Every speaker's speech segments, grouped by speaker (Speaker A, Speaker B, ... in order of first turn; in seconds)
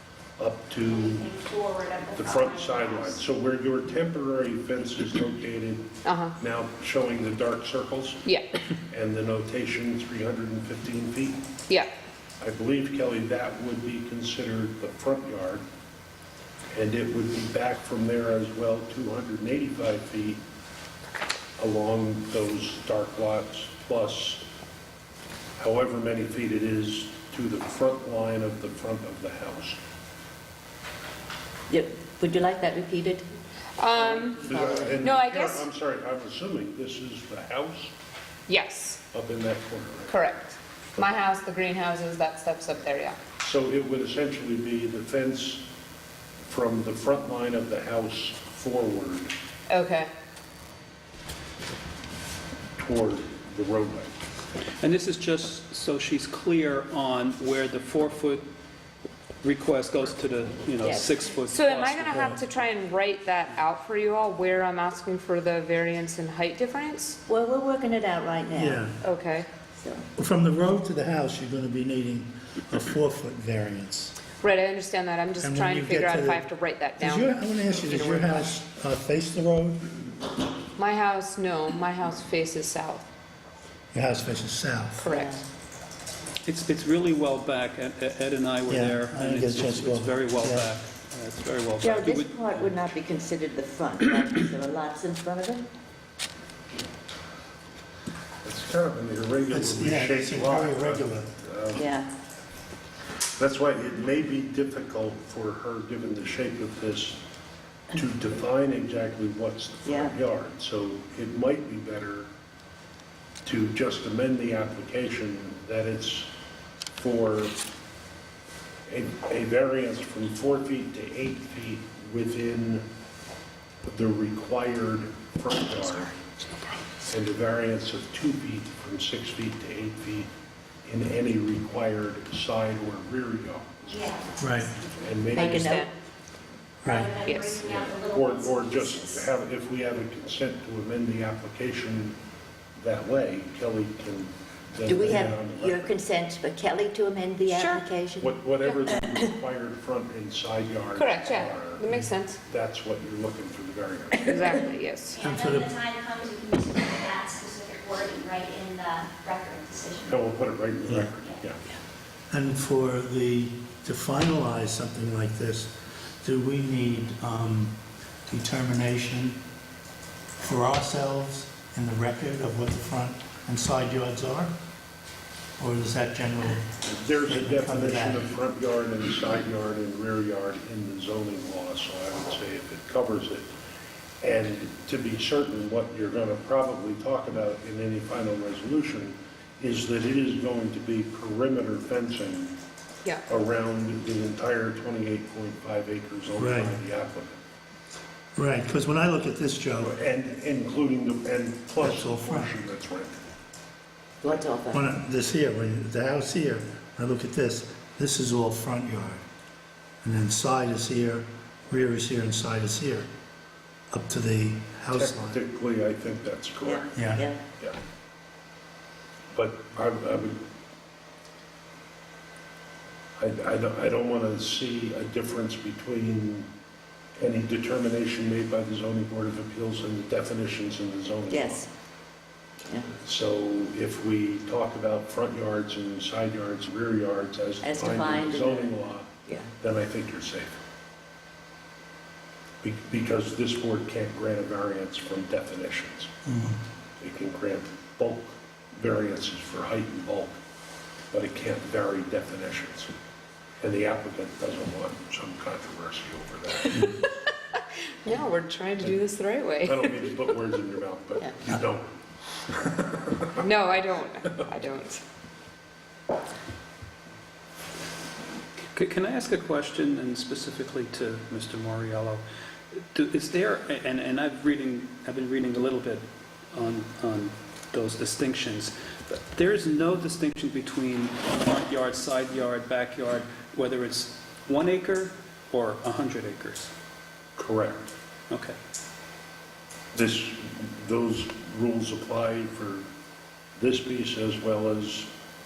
Speaker A: 0.4-1.3, 2.1-8.3, 8.9-11.4, 12.4-15.6, 16.7-20.4, 21.6-24.5, 25.6-29.8, 34.5-37.9, 39.1-40.1, 43.4-45.7, 46.5-49.3, 52.8-54.1, 98.4-101.9, 103.4-107.2, 107.9-112.3, 113.5-116.3, 117.0-117.6, 118.9-122.8, 123.8-126.2, 127.0-130.3, 130.9-134.0, 135.0-135.8, 137.6-142.2, 142.8-146.0, 148.2-151.9, 152.4-154.6, 160.1-161.6, 176.8-183.5, 184.2-192.6, 193.3-197.4, 199.8-203.2, 214.9-217.1, 219.3-220.4, 223.2-226.5, 227.2-231.7, 232.9-240.6, 242.6-246.1, 247.0-250.4, 251.1-252.9, 253.6-256.9, 259.6-261.9, 262.5-263.4, 287.4-287.9, 289.9-292.9, 293.6-295.1
Speaker B: 0.9-3.2, 133.9-135.1, 136.8-139.3, 155.1-160.2
Speaker C: 6.0-6.3, 33.8-35.7, 38.5-39.0, 40.1-43.2, 49.7-50.1, 61.5-67.2, 69.0-69.5, 74.4-78.5, 80.8-83.1, 85.0-85.4, 135.4-135.9, 137.2-137.6, 147.6-147.8, 150.9-152.4, 154.2-155.2, 258.1-259.9, 263.4-265.0
Speaker D: 31.7-33.3, 33.9-35.1, 60.8-61.1, 67.3-68.9, 69.8-70.1, 85.0-85.4, 91.8-95.7, 101.8-102.1, 109.8-110.1, 135.3-135.9, 144.9-148.4, 204.2-204.8, 216.6-217.4, 231.3-231.7, 237.6-238.7
Speaker E: 54.8-58.4, 59.4-62.3, 86.5-92.8, 268.7-286.7, 288.3-288.6
Speaker F: 62.1-62.4, 68.6-68.9, 70.2-74.2, 75.4-76.5, 77.0-79.9, 83.9-85.0, 88.7-90.7, 99.5-101.3, 134.4-134.7, 136.8-137.2, 155.2-155.8, 162.3-167.8, 168.3-169.4, 170.4-174.5, 175.6-178.3, 196.4-196.8, 198.4-199.9, 201.8-202.5, 204.7-209.2, 210.0-213.1, 213.9-215.4, 216.9-217.3, 246.3-246.6